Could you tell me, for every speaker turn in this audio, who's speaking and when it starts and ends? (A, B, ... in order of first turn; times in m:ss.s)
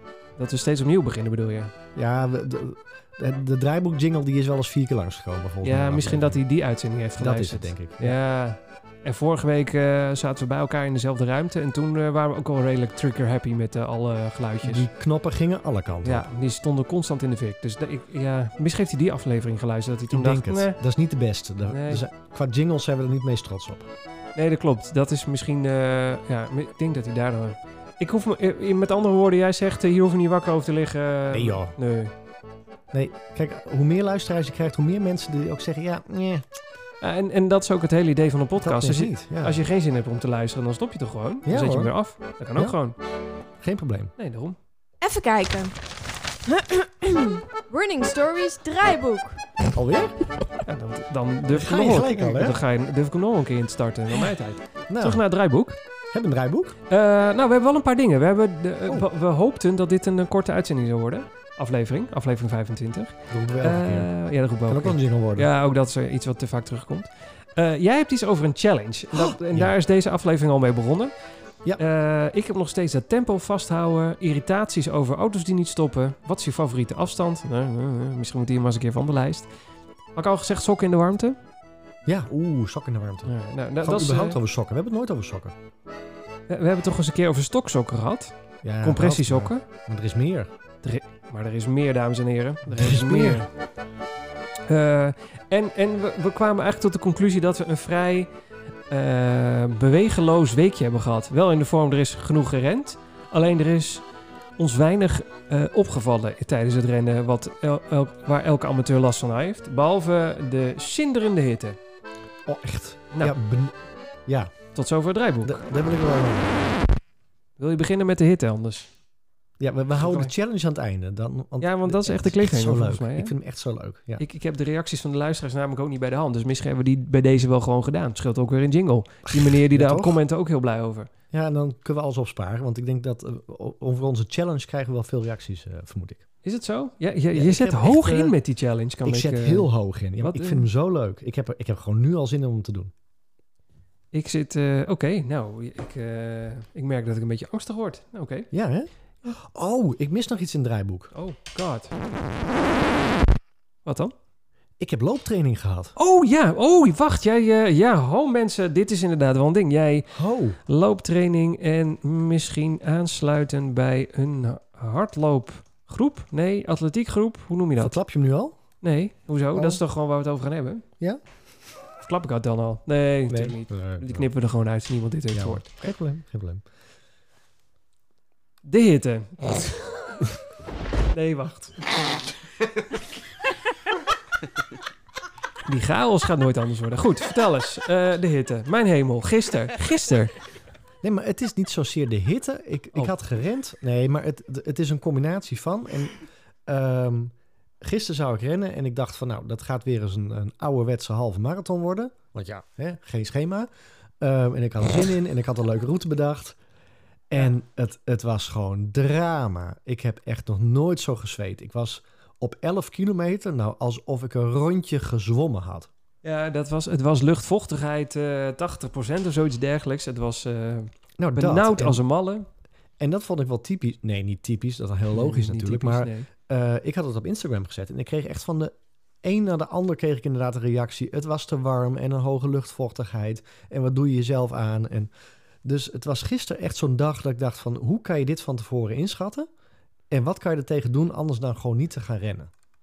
0:00.4-0:01.7 A
0:02.0-0:06.4 B
0:05.6-0:14.9 A
0:07.2-0:08.2 B
0:14.6-0:16.3 B
0:16.0-0:20.8 A
0:20.1-0:23.9 B
0:21.7-0:22.0 A
0:24.4-0:32.1 A
0:31.3-0:31.7 B
0:32.9-0:36.5 B
0:37.0-0:43.0 A
0:38.6-0:39.6 B
0:41.4-0:41.9 B
0:43.6-0:44.1 B
0:44.2-0:44.6 A
0:45.0-0:45.9 C
0:46.4-0:49.6 C
0:49.7-0:50.2 B
0:50.6-0:55.8 A
0:51.5-0:52.6 B
0:54.9-0:55.2 B
0:56.1-0:56.8 B
0:56.9-1:11.1 A
1:03.3-1:04.1 B
1:04.7-1:05.5 B
1:09.1-1:09.7 B
1:11.8-1:19.5 A
1:20.1-1:21.4 A
1:22.0-1:25.5 B
1:23.2-1:24.4 A
1:26.5-1:29.6 A
1:28.6-1:30.5 B
1:30.8-1:33.5 A
1:32.7-1:33.4 B
1:34.7-1:38.3 A
1:38.9-1:51.8 A
1:52.4-1:54.6 B
1:54.7-1:55.6 A
1:55.4-1:56.9 B
1:57.6-1:58.9 A
1:59.6-2:04.2 B
2:00.0-2:00.3 A
2:01.6-2:03.3 A
2:04.2-2:11.1 A
2:09.3-2:10.2 B
2:11.3-2:16.3 B
2:16.4-2:19.7 A
2:17.3-2:18.4 B
2:19.0-2:22.9 B
2:20.2-2:20.7 A
2:24.1-2:28.5 A
2:28.5-2:31.1 B
2:31.1-2:31.9 A
2:33.8-2:34.1 A
2:34.8-2:35.9 B
2:36.0-2:47.9 A
2:40.1-2:40.6 B
2:47.8-2:48.6 B
2:48.8-2:50.8 A
2:49.5-2:49.8 B
2:52.0-2:55.7 A
2:53.3-2:54.3 B
2:55.3-2:56.6 B
2:58.6-3:00.0 A
3:01.1-3:01.8 A
3:05.6-3:10.4 A
3:11.0-3:23.7 B
3:24.2-3:26.6 B
3:27.3-3:35.9 B
3:36.2-3:42.4 A
3:41.2-3:42.0 B
3:43.0-3:55.1 B
3:45.1-3:46.3 A
3:55.6-3:59.5 B
4:00.1-4:02.5 B